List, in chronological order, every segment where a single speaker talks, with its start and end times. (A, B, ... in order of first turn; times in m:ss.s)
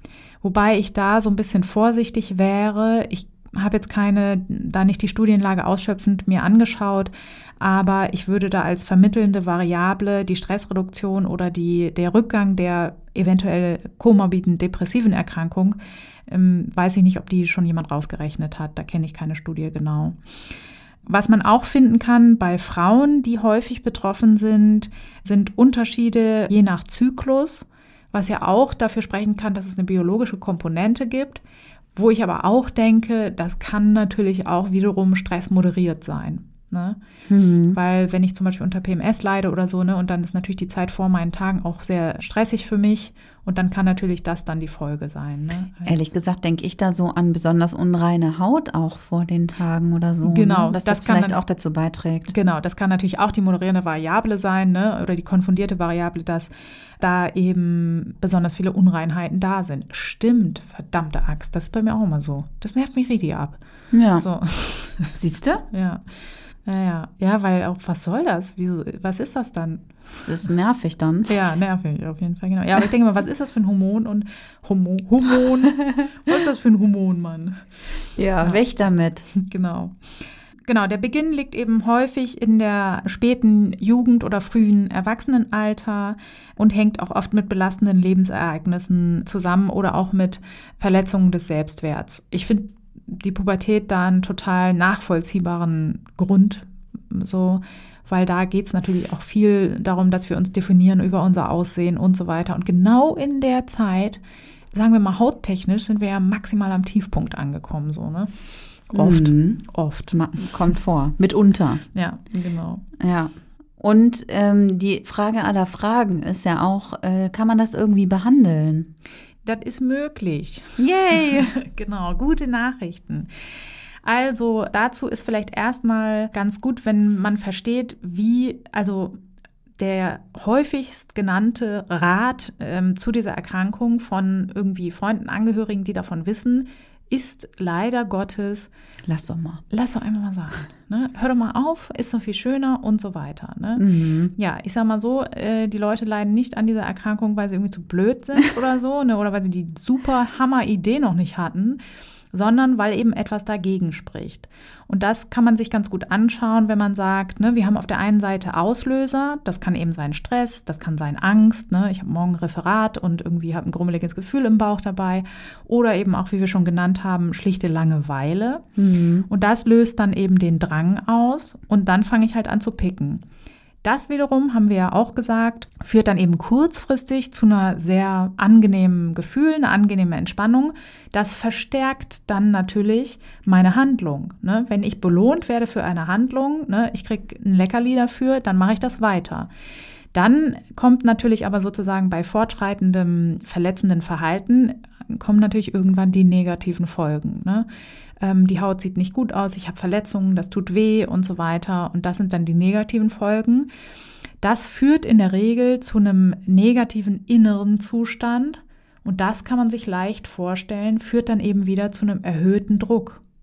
0:00.4-0:20.2 A
0:21.1-0:31.4 A
0:32.0-0:37.0 A
0:37.3-0:37.8 B
0:37.7-0:46.0 A
0:45.9-0:52.3 B
0:50.2-0:51.4 A
0:52.3-1:03.6 A
1:03.9-1:04.3 B
1:04.1-1:05.1 A
1:05.1-1:05.6 B
1:05.7-1:06.0 A
1:06.6-1:10.3 A
1:10.2-1:11.3 B
1:11.3-1:17.8 A
1:18.2-1:19.3 B
1:19.3-1:19.9 A
1:20.7-1:44.2 A
1:44.7-1:48.3 A
1:48.9-1:50.5 A
1:49.0-1:51.8 B
1:51.9-1:52.8 A
1:53.0-1:58.9 B
1:59.4-2:03.3 A
2:00.8-2:01.6 B
2:04.0-2:09.2 A
2:09.8-2:18.7 A
2:19.1-2:19.6 B
2:19.7-2:23.8 A
2:23.8-2:24.3 B
2:24.4-2:31.8 A
2:32.3-2:48.6 A
2:48.8-2:49.3 B
2:49.3-2:53.2 A
2:53.8-3:09.5 A
3:10.1-3:17.7 A
3:18.2-3:23.7 A
3:24.4-3:33.2 A